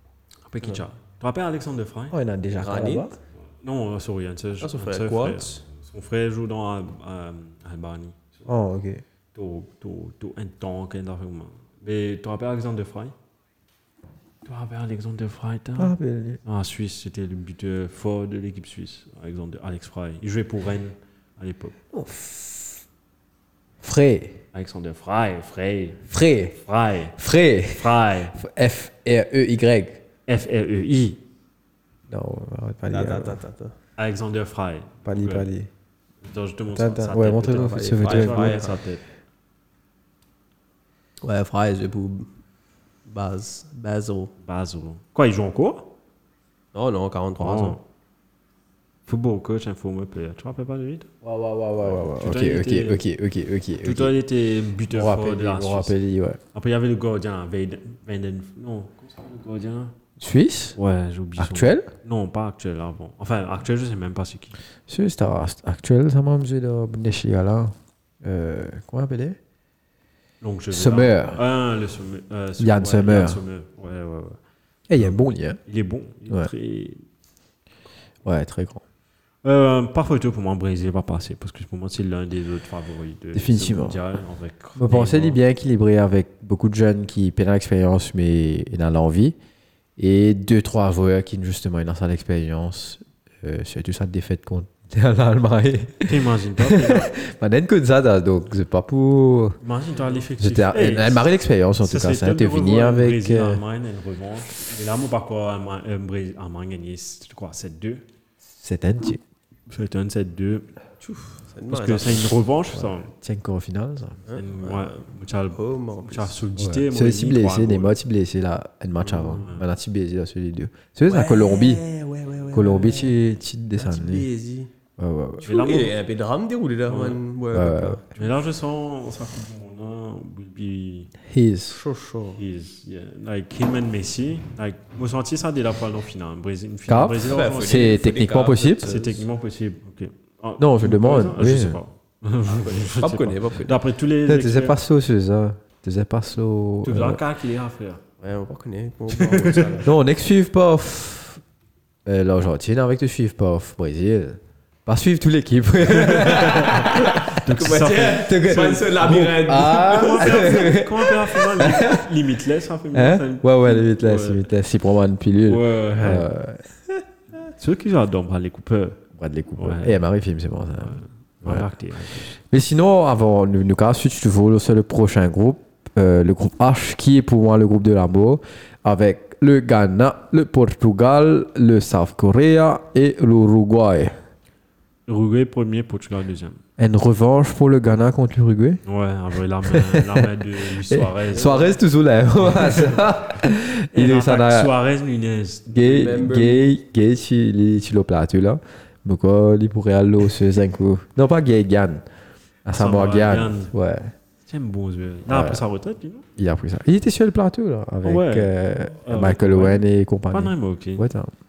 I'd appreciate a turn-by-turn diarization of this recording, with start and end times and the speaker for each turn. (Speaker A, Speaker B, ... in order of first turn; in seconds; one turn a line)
Speaker A: 0.5-2.1
Speaker B: 2.1-3.2
Speaker C: 2.5-3.1
Speaker A: 3.6-8.4
Speaker C: 4.6-5.6
Speaker B: 8.5-9.0
Speaker A: 9.3-13.1
Speaker A: 14.4-21.7
Speaker B: 15.8-16.4
Speaker B: 21.9-22.8
Speaker B: 23.8-24.4
Speaker A: 24.5-26.1
Speaker B: 26.1-26.6
Speaker A: 26.6-27.2
Speaker B: 27.2-30.0
Speaker A: 27.7-28.4
Speaker A: 30.3-31.2
Speaker B: 32.1-33.4
Speaker C: 32.9-33.8
Speaker A: 34.0-35.5
Speaker B: 35.1-35.7
Speaker A: 36.2-39.0
Speaker B: 36.7-38.6
Speaker C: 37.5-38.8
Speaker C: 41.2-42.3
Speaker C: 43.0-44.3
Speaker A: 44.4-45.9
Speaker C: 46.7-47.8
Speaker A: 47.4-47.8
Speaker A: 49.1-51.1
Speaker B: 51.2-54.1
Speaker A: 51.9-53.0
Speaker A: 53.8-56.0
Speaker B: 54.9-56.4
Speaker A: 56.5-60.0
Speaker B: 60.2-60.8
Speaker A: 60.8-64.5
Speaker B: 61.4-61.9
Speaker B: 64.9-69.4
Speaker A: 70.4-74.4
Speaker B: 70.7-71.4
Speaker B: 72.6-73.4
Speaker B: 74.9-75.6
Speaker A: 75.0-77.0
Speaker B: 78.2-78.8
Speaker A: 79.4-85.4
Speaker B: 83.3-84.0
Speaker B: 84.8-89.4
Speaker B: 90.0-99.6
Speaker A: 96.1-97.1
Speaker A: 99.6-101.2
Speaker B: 100.4-103.6
Speaker A: 101.8-108.0
Speaker B: 108.6-109.2
Speaker A: 109.7-110.7
Speaker C: 111.0-112.3
Speaker A: 111.7-113.1
Speaker B: 112.7-114.2
Speaker C: 114.3-116.4
Speaker A: 114.3-117.9
Speaker B: 116.6-121.8
Speaker A: 119.1-119.6
Speaker C: 121.1-123.2
Speaker B: 122.5-124.3
Speaker C: 123.8-124.7
Speaker B: 125.0-125.5
Speaker C: 125.4-128.1
Speaker A: 125.5-126.0
Speaker A: 126.9-127.2
Speaker B: 127.5-128.0
Speaker A: 128.2-131.1
Speaker B: 131.2-131.8
Speaker C: 131.7-132.4
Speaker A: 132.4-137.9
Speaker B: 136.9-138.9
Speaker C: 137.2-139.2
Speaker A: 138.8-144.8
Speaker B: 140.6-141.8
Speaker C: 142.5-143.8
Speaker B: 144.3-147.2
Speaker A: 146.8-148.0
Speaker C: 148.2-149.9
Speaker A: 149.1-149.8
Speaker B: 149.8-151.4
Speaker B: 152.1-157.4
Speaker A: 156.1-164.5
Speaker C: 156.5-160.8
Speaker B: 158.1-162.1
Speaker B: 162.9-166.6
Speaker A: 165.5-166.3
Speaker A: 167.6-169.0
Speaker B: 169.2-171.7
Speaker A: 169.6-170.0
Speaker A: 170.9-172.3
Speaker B: 172.2-184.2
Speaker A: 185.1-186.6
Speaker B: 186.8-188.8
Speaker A: 188.8-191.8
Speaker B: 189.7-194.7
Speaker C: 191.4-191.8
Speaker A: 192.4-193.1
Speaker A: 193.9-196.3
Speaker B: 195.7-202.0
Speaker C: 195.8-196.8
Speaker B: 202.7-204.1
Speaker A: 202.8-203.7
Speaker A: 204.5-206.2
Speaker B: 205.3-205.6
Speaker B: 206.4-211.3
Speaker A: 208.0-211.1